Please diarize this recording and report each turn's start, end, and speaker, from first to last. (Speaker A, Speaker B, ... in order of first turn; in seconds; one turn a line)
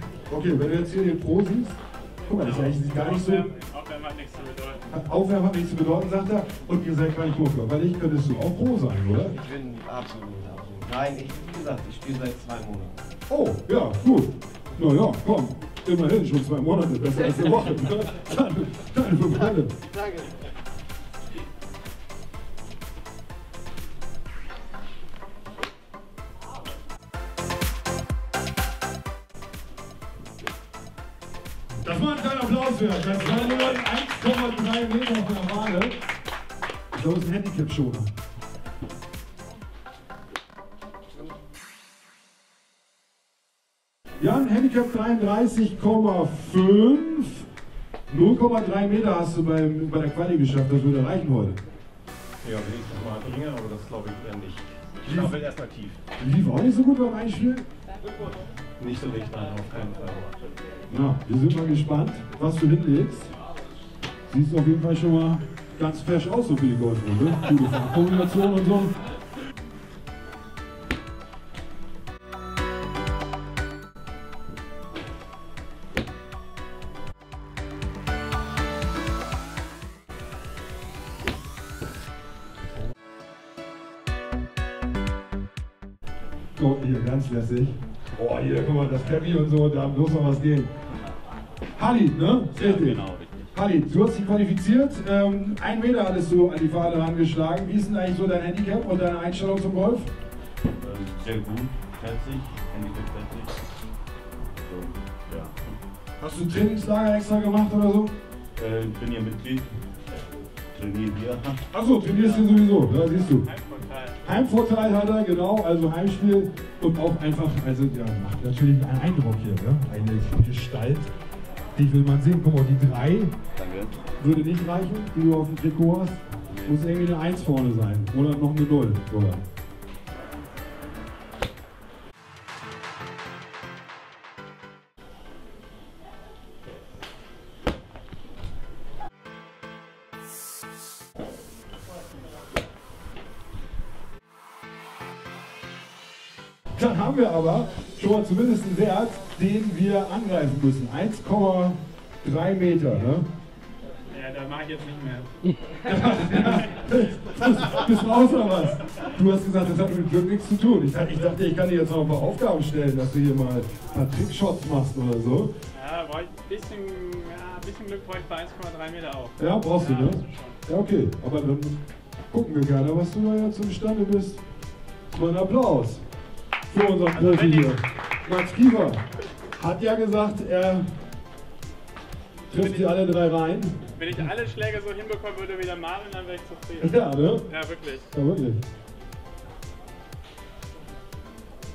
Speaker A: 0.3-3.5
Speaker B: 2.4-4.8
Speaker A: 4.9-9.3
Speaker C: 9.4-13.0
Speaker A: 13.3-19.7
Speaker A: 31.8-36.0
Speaker A: 36.9-38.1
Speaker A: 44.2-47.5
Speaker A: 48.1-51.6
Speaker D: 52.4-56.0
Speaker C: 53.5-53.9
Speaker A: 55.0-55.4
Speaker A: 56.2-57.6
Speaker C: 58.8-59.3
Speaker D: 58.8-60.3
Speaker A: 60.9-63.3
Speaker A: 64.3-68.9
Speaker A: 86.6-90.7
Speaker A: 91.8-100.1
Speaker D: 92.5-93.4
Speaker D: 100.8-103.6
Speaker D: 104.6-105.8
Speaker A: 106.2-108.1
Speaker D: 108.6-110.2
Speaker D: 110.7-112.5
Speaker A: 111.7-113.5
Speaker B: 113.4-114.2
Speaker A: 114.2-121.1
Speaker A: 121.8-123.3
Speaker D: 123.6-124.0
Speaker A: 124.2-129.4
Speaker D: 126.5-126.8
Speaker A: 146.8-153.3
Speaker B: 154.1-155.3
Speaker A: 155.8-165.5
Speaker B: 156.3-156.7
Speaker B: 165.7-170.6
Speaker A: 169.4-171.8
Speaker A: 172.3-174.4
Speaker A: 175.1-176.0
Speaker A: 176.7-179.0
Speaker B: 177.1-177.8
Speaker A: 179.5-180.9
Speaker B: 182.5-183.0
Speaker A: 182.5-183.8
Speaker B: 184.0-188.1
Speaker A: 186.8-187.5
Speaker A: 188.1-188.6